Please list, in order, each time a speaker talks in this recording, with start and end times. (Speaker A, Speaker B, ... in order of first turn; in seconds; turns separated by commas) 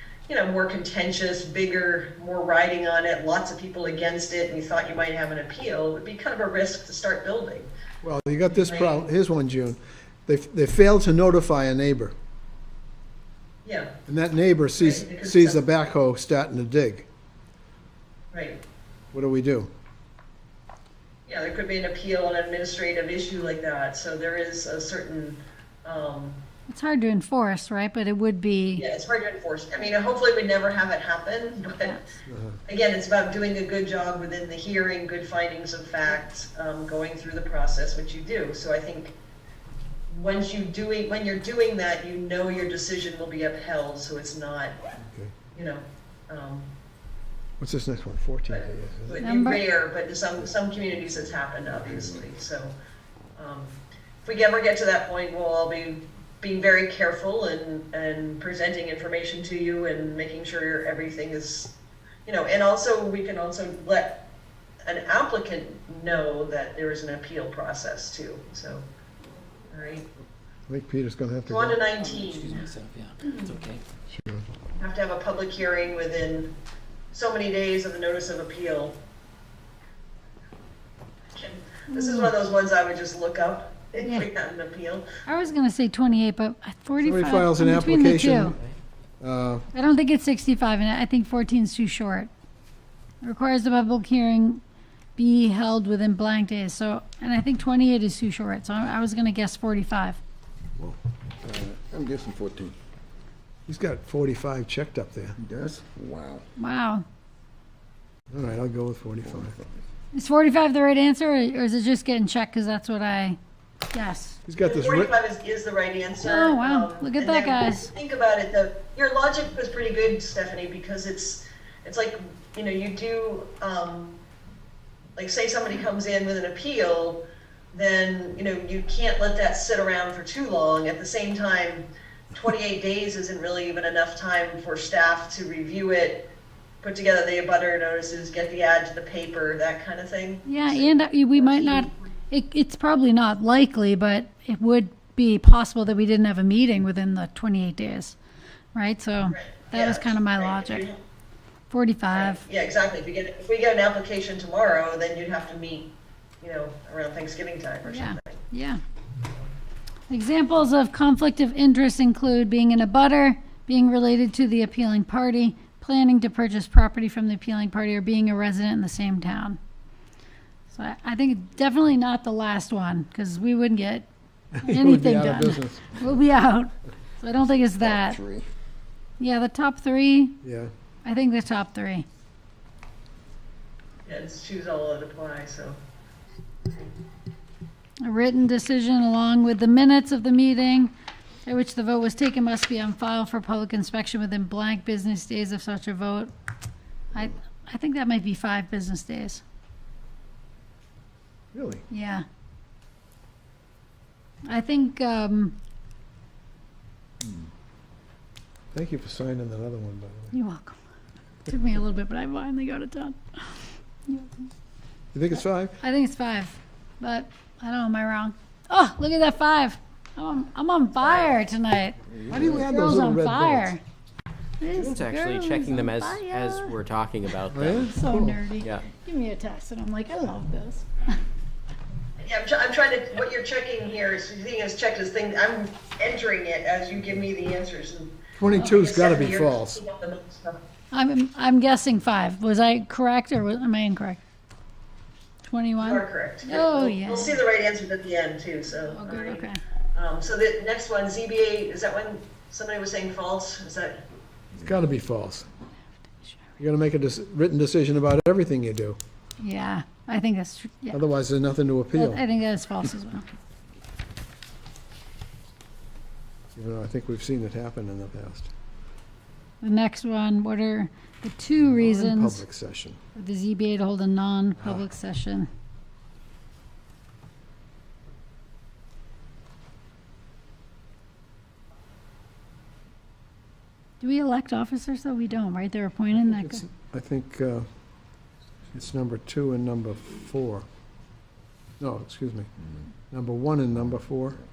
Speaker A: 0.3-7.7, Speaker B: 8.0-12.1, Speaker A: 8.5-9.1, Speaker A: 13.6-14.0, Speaker B: 14.1-17.1, Speaker A: 14.8-15.6, Speaker A: 18.3-18.6, Speaker B: 19.1-19.7, Speaker A: 21.3-26.4, Speaker C: 26.7-28.8, Speaker A: 28.8-32.0, Speaker B: 32.3-32.6, Speaker A: 32.7-39.1, Speaker A: 40.1-44.8, Speaker B: 45.0-45.3, Speaker A: 45.5-46.7, Speaker B: 47.6-49.2, Speaker A: 48.5-52.8, Speaker C: 49.2-49.6, Speaker A: 53.4-61.8, Speaker A: 62.3-64.3, Speaker A: 64.8-68.9, Speaker A: 69.7-70.1, Speaker B: 70.7-71.8, Speaker A: 71.5-72.7, Speaker D: 72.4-73.8, Speaker A: 73.2-73.5, Speaker B: 74.2-74.4, Speaker A: 74.8-76.5, Speaker A: 77.1-79.0, Speaker A: 81.3-85.1, Speaker C: 81.9-82.3, Speaker C: 84.0-84.3, Speaker C: 85.3-88.5, Speaker B: 87.0-88.6, Speaker B: 89.2-89.6, Speaker C: 89.7-92.3, Speaker C: 93.2-94.6, Speaker C: 95.2-100.2, Speaker E: 101.4-102.8, Speaker B: 103.7-105.4, Speaker E: 105.4-106.4, Speaker C: 106.6-107.0, Speaker B: 108.3-109.5, Speaker C: 110.1-113.4, Speaker C: 113.9-114.4, Speaker B: 114.5-115.1, Speaker A: 114.6-124.2, Speaker C: 116.2-117.9, Speaker A: 125.2-136.3, Speaker A: 136.8-142.1, Speaker C: 140.5-148.2, Speaker C: 148.8-150.8, Speaker A: 149.2-151.0, Speaker C: 151.7-152.4, Speaker A: 152.1-158.4, Speaker C: 157.9-158.8, Speaker A: 159.2-159.5, Speaker C: 160.1-169.6, Speaker C: 170.7-174.1, Speaker B: 174.6-176.1, Speaker C: 174.6-178.2, Speaker E: 177.8-178.4, Speaker C: 179.2-180.4, Speaker B: 180.4-180.7, Speaker C: 181.0-182.1, Speaker A: 184.1-185.8, Speaker C: 188.0-190.9, Speaker C: 191.4-196.3, Speaker C: 197.1-199.4, Speaker B: 201.5-201.8, Speaker C: 201.9-202.2, Speaker C: 204.5-205.6, Speaker B: 208.7-210.3, Speaker C: 210.3-210.8, Speaker C: 211.5-214.5, Speaker B: 215.1-215.8, Speaker C: 215.8-222.0, Speaker A: 221.0-221.4, Speaker B: 222.3-223.7, Speaker C: 222.6-223.8, Speaker C: 224.6-226.8, Speaker D: 224.7-227.9, Speaker B: 227.5-228.4, Speaker C: 227.7-230.9, Speaker D: 228.6-228.9, Speaker A: 232.2-240.6, Speaker B: 238.4-239.8, Speaker C: 240.9-244.2, Speaker C: 245.5-247.3, Speaker A: 245.8-254.1, Speaker C: 248.9-249.6, Speaker B: 254.6-255.5, Speaker B: 256.6-259.0, Speaker C: 259.4-261.0, Speaker B: 260.9-262.2, Speaker C: 261.9-263.3, Speaker B: 266.6-268.5, Speaker C: 269.6-272.4, Speaker B: 271.6-273.0, Speaker C: 273.2-275.5, Speaker C: 284.0-286.7, Speaker B: 286.2-287.7, Speaker B: 288.7-290.7, Speaker B: 291.8-292.5, Speaker B: 293.1-294.4